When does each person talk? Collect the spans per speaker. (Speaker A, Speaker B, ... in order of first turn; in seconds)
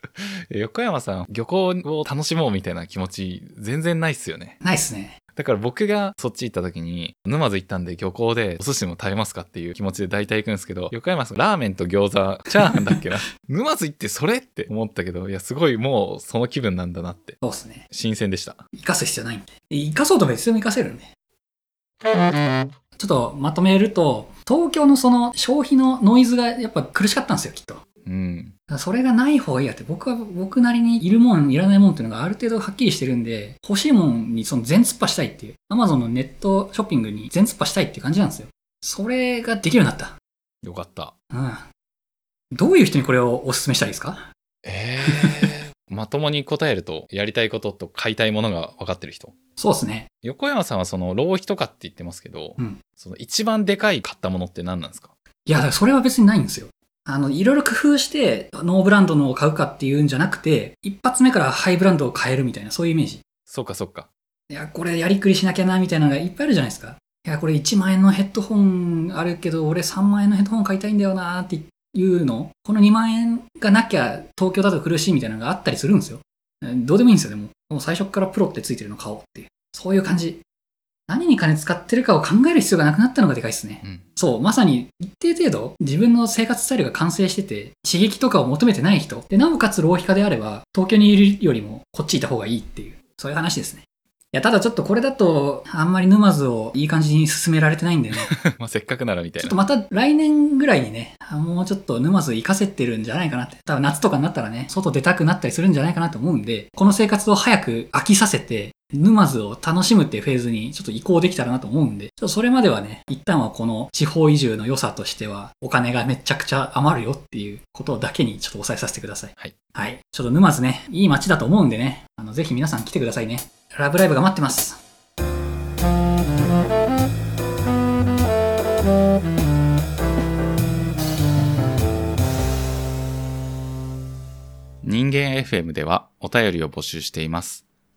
Speaker A: 0.2-4.6, 5.3-17.4, 17.9-18.6, 28.1-28.5, 40.6-41.1, 44.6-49.4, 50.2-55.1, 63.5-64.1, 98.2-99.6, 134.8-137.6
Speaker B: 4.6-5.2, 17.4-17.9, 18.7-21.1, 23.0-27.8, 28.7-40.2, 41.3-41.7, 42.5-44.2, 45.1-45.5, 49.6-50.1, 55.5-63.2, 64.5-80.4, 81.1-98.4, 99.4-124.8